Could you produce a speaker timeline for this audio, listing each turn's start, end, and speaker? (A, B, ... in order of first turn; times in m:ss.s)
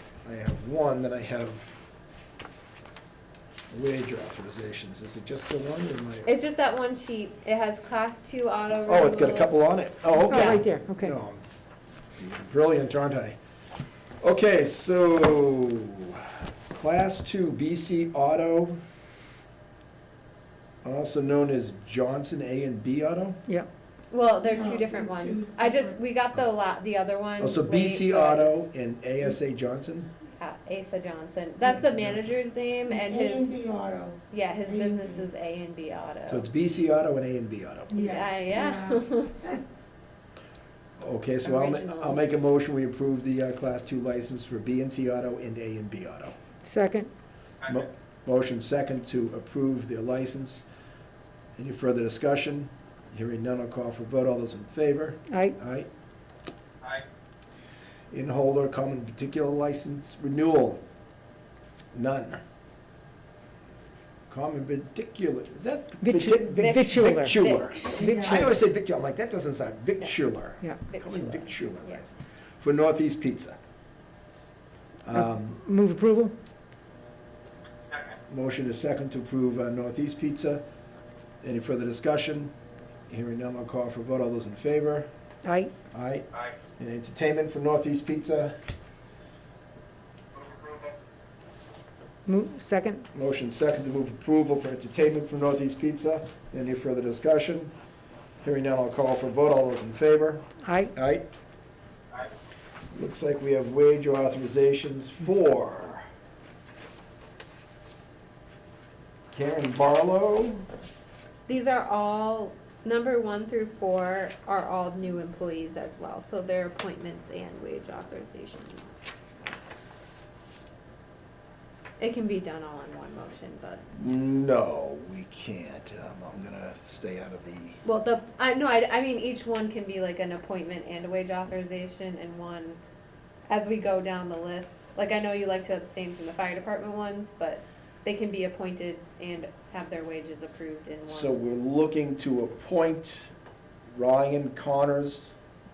0:00.2-0:01.8 A
0:03.7-0:06.3 A
0:06.2-0:09.5 B
0:08.9-0:11.4 A
0:10.2-0:11.2 C
0:10.3-0:10.6 B
0:12.2-0:13.4 A
0:14.2-0:18.8 A
0:20.8-0:23.4 A
0:24.1-0:28.7 B
0:24.4-0:26.0 D
0:27.4-0:30.1 A
0:30.4-0:33.6 B
0:31.6-0:32.3 A
0:32.9-0:35.2 D
0:34.3-0:36.5 B
0:36.3-0:37.9 A
0:37.9-0:39.6 D
0:38.0-0:39.4 B
0:41.0-0:46.3 A
0:41.4-0:42.3 B
0:46.6-0:47.1 C
0:47.6-0:50.7 A
0:51.6-0:55.9 A
0:55.3-0:55.6 C
0:58.1-1:00.8 A
1:01.9-1:02.4 A
1:04.3-1:13.6 A
1:06.0-1:08.6 C
1:06.6-1:08.0 B
1:08.0-1:08.5 D
1:10.9-1:12.0 B
1:15.0-1:15.6 A
1:15.1-1:16.3 C
1:18.3-1:20.6 A
1:21.4-1:22.5 A
1:23.1-1:25.1 A
1:25.4-1:25.7 C
1:25.9-1:28.6 A
1:32.3-1:33.1 C
1:33.1-1:37.7 A
1:38.4-1:41.3 A
1:40.6-1:40.9 C
1:42.9-1:46.1 A
1:49.3-1:50.7 A
1:51.5-1:59.0 B
2:02.0-2:03.9 B
2:04.0-2:07.8 A
2:07.8-2:12.8 B
2:13.5-2:21.4 B
2:21.1-2:23.3 A
2:24.0-2:25.3 A